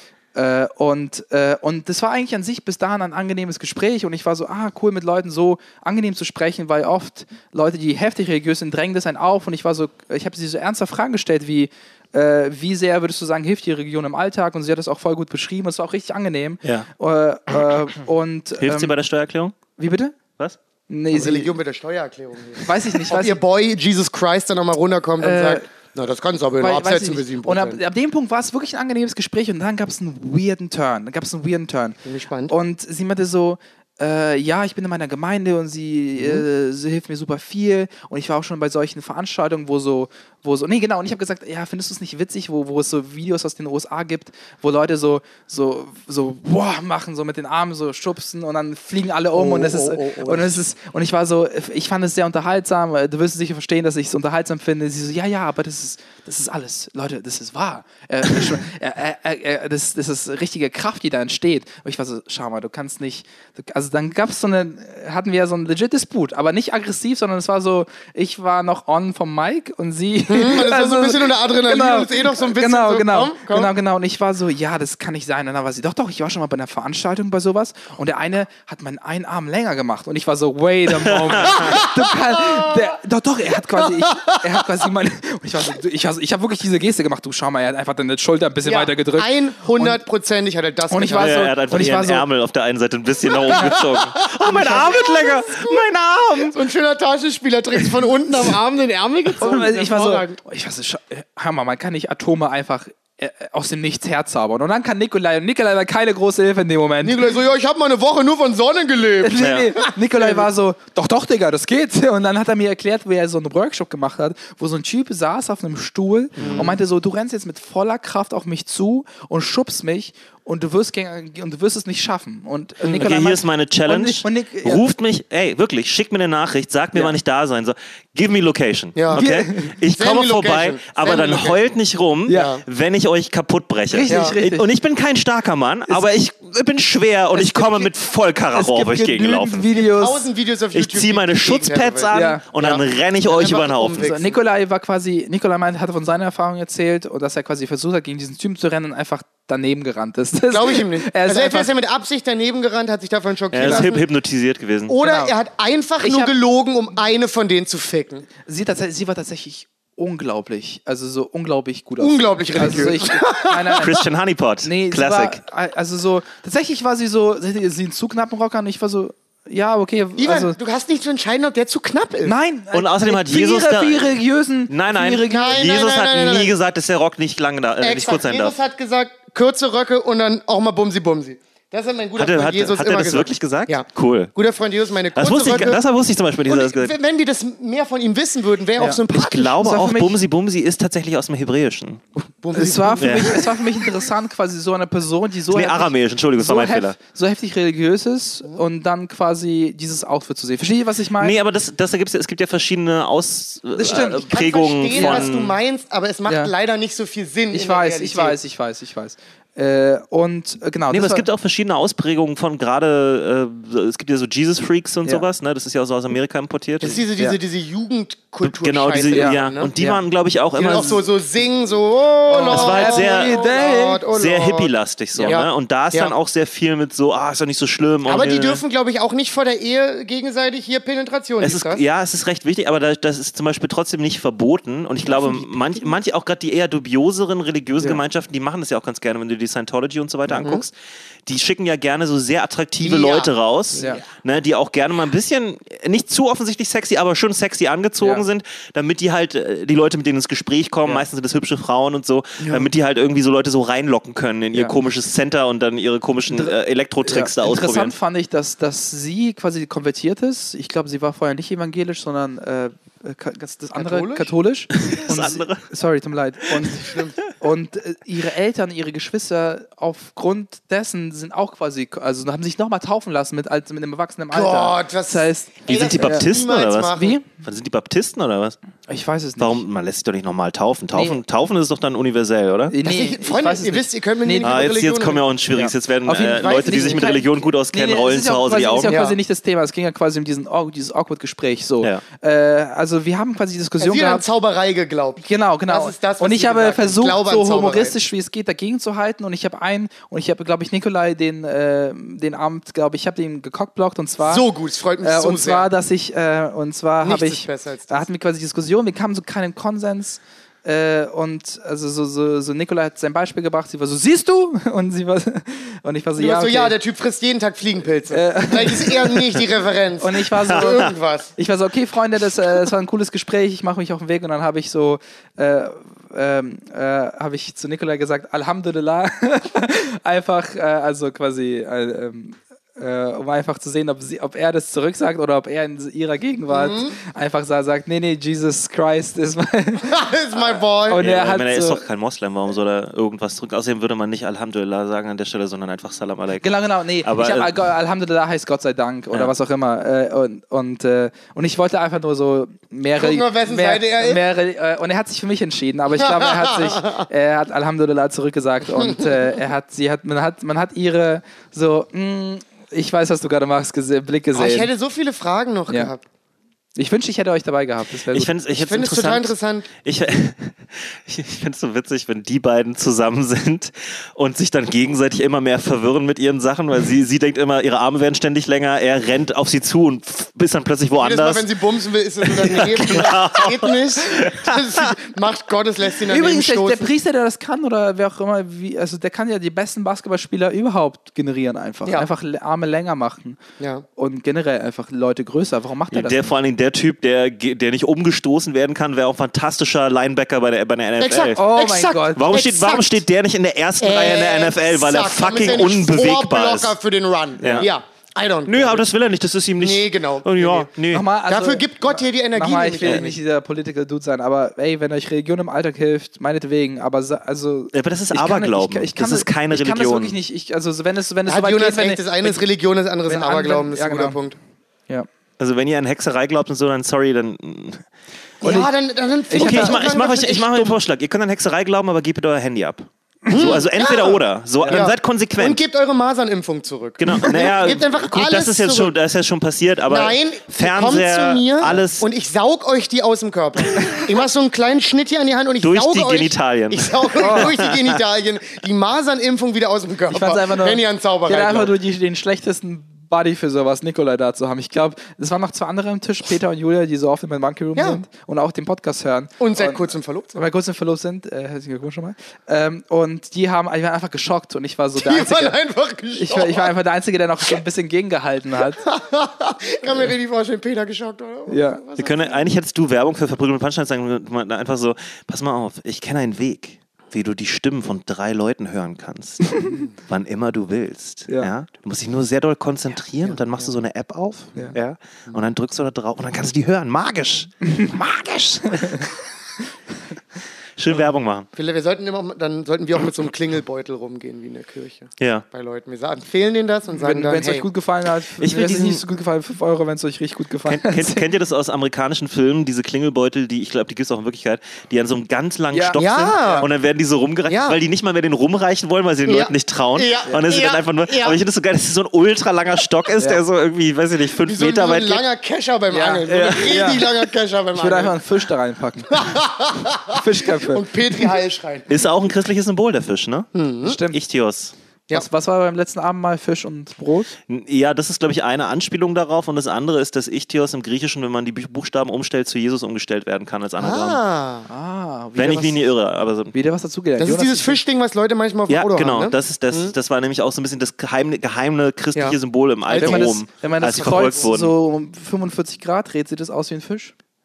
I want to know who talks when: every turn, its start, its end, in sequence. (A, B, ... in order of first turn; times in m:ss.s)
0:00.3-0:18.9 A
0:18.6-0:19.6 B
0:19.8-0:20.1 A
0:20.9-0:21.6 A
0:21.1-0:27.8 C
0:22.6-0:23.4 A
0:25.2-0:25.6 A
0:26.6-0:32.0 A
0:32.0-0:32.5 C
0:32.5-1:30.0 A
0:36.2-0:36.4 C
0:49.3-0:50.6 C
1:10.3-1:13.7 C
1:21.0-1:21.8 B
1:21.5-1:22.9 C
1:23.8-1:24.5 C
1:28.6-1:31.5 C
1:30.9-1:32.2 A
1:31.2-1:36.6 B
1:33.4-1:35.8 C
1:33.5-1:33.8 A
1:34.5-1:34.8 A
1:36.4-1:40.4 C
1:39.4-1:47.3 A
1:47.0-1:50.5 C
1:49.2-2:04.8 A
1:49.4-1:49.7 B
1:56.4-1:56.7 B
1:56.4-1:56.8 C
2:02.8-2:19.7 B
2:09.0-2:09.2 C
2:09.1-2:09.7 A
2:09.9-2:11.6 C
2:12.3-2:12.5 A
2:12.3-2:12.6 C
2:13.9-2:14.7 A
2:14.1-2:14.4 C
2:17.3-2:17.9 A
2:18.5-2:20.2 A
2:19.7-2:24.4 C
2:20.7-2:24.1 B
2:22.1-2:22.4 A
2:24.0-2:31.7 A
2:30.5-2:34.0 C
2:33.5-2:34.9 B
2:33.6-2:33.9 A
2:34.9-2:38.2 C
2:35.0-2:35.3 A
2:36.0-2:36.3 A
2:38.4-2:44.0 A
2:42.0-2:44.0 C
2:43.8-2:45.4 B
2:44.6-2:50.6 A
2:50.2-2:52.4 C
2:52.2-2:55.6 A
2:52.7-2:58.5 B
2:55.2-2:56.5 C
2:57.8-3:05.8 C
3:02.2-3:04.3 B
3:05.1-3:06.9 B
3:06.4-3:09.6 C
3:08.8-3:10.2 A
3:09.1-3:12.0 B
3:12.2-3:13.6 C
3:12.5-3:21.4 A
3:13.0-3:13.4 B
3:15.5-3:17.0 B
3:21.2-3:25.6 B
3:23.7-3:24.3 A
3:24.2-3:28.4 C
3:24.9-3:25.3 A
3:27.5-3:31.2 A
3:30.9-3:37.0 B
3:36.8-3:39.7 C
3:38.4-3:41.0 B
3:39.1-3:40.0 A
3:40.5-3:44.7 C
3:42.3-3:44.0 A
3:42.4-3:48.6 B
3:45.1-3:45.4 A
3:45.2-3:46.1 C
3:48.0-3:51.8 C
3:51.4-4:00.7 B
3:55.1-3:55.4 C
4:01.2-4:17.9 B
4:02.8-4:04.0 C
4:16.3-4:36.3 A
4:23.7-4:24.3 C
4:24.7-4:25.6 B
4:26.8-4:27.2 C
4:34.3-4:37.2 C
4:35.6-4:38.6 B
4:36.9-4:37.2 A
4:38.9-4:39.6 A
4:39.4-4:42.7 B
4:40.9-4:41.2 A
4:42.7-4:44.7 A
4:42.8-4:45.2 C
4:44.4-4:49.0 B
4:45.5-4:54.2 A
4:46.3-4:47.2 C
4:48.9-4:49.2 C
4:53.8-4:58.0 C
4:55.2-5:04.4 A
5:04.2-5:05.7 C
5:05.0-5:16.8 A
5:07.0-5:08.0 C
5:16.2-5:21.3 C
5:18.1-5:19.4 A
5:20.0-5:40.0 A
5:36.5-5:37.0 C
5:39.8-5:41.0 C
5:40.9-5:41.8 A
5:40.9-5:47.6 B
5:46.4-6:04.7 A
5:53.0-5:54.2 C
5:56.0-5:57.0 C
5:58.8-5:59.1 C
6:04.3-6:06.0 C
6:06.8-6:08.3 A
6:08.1-6:21.5 B
6:08.6-6:09.7 C
6:21.0-6:26.9 C
6:22.2-6:25.0 B
6:26.0-6:33.4 A
6:33.6-6:33.8 C
6:34.0-6:36.2 A
6:35.9-6:41.4 B
6:41.0-6:43.0 C
6:41.4-6:42.3 A
6:42.2-6:46.8 B
6:43.8-6:48.9 C
6:47.4-6:47.7 A
6:47.4-6:47.7 B
6:48.5-6:51.1 B
6:49.6-6:50.7 C
6:50.9-7:02.4 A
6:51.2-6:53.2 C
6:57.7-7:00.2 B
7:01.2-7:04.4 C
7:03.1-7:04.2 A
7:05.4-7:07.8 B
7:08.4-7:10.8 C
7:08.4-7:08.7 A
7:09.3-7:09.8 A
7:09.3-7:15.6 B
7:13.3-7:18.9 C
7:14.6-7:14.9 A
7:17.0-7:22.1 B
7:19.9-7:31.7 C
7:23.8-7:24.0 A
7:25.6-7:28.0 B
7:27.2-7:27.5 A
7:30.1-7:45.6 A
7:39.4-7:40.4 C
7:45.0-7:46.7 C
7:46.1-7:48.8 A
7:48.8-7:52.4 C
7:51.5-7:51.8 A
7:52.0-8:09.1 B
7:59.6-7:59.8 A
8:08.6-8:09.0 A
8:10.8-8:11.5 B
8:11.6-8:17.6 C
8:15.2-8:15.4 B
8:17.0-8:21.2 A
8:18.4-8:19.0 B
8:20.6-8:35.2 B
8:25.7-8:26.6 A
8:26.0-8:26.7 C
8:27.5-8:27.8 C
8:29.2-8:31.4 C
8:34.4-8:38.2 C
8:35.9-8:39.4 A
8:39.1-8:41.9 C
8:40.1-8:40.9 A
8:41.9-8:43.5 B
8:43.5-8:44.0 C
8:43.8-8:44.2 A
8:44.1-8:44.7 B
8:45.1-8:47.3 A
8:47.5-8:54.2 B
8:53.8-8:54.7 C
8:54.7-8:55.9 A
8:55.4-8:56.6 B
8:56.5-8:57.8 A
8:57.2-8:59.9 C
8:58.7-9:04.7 B
9:02.1-9:04.5 C
9:02.9-9:07.1 A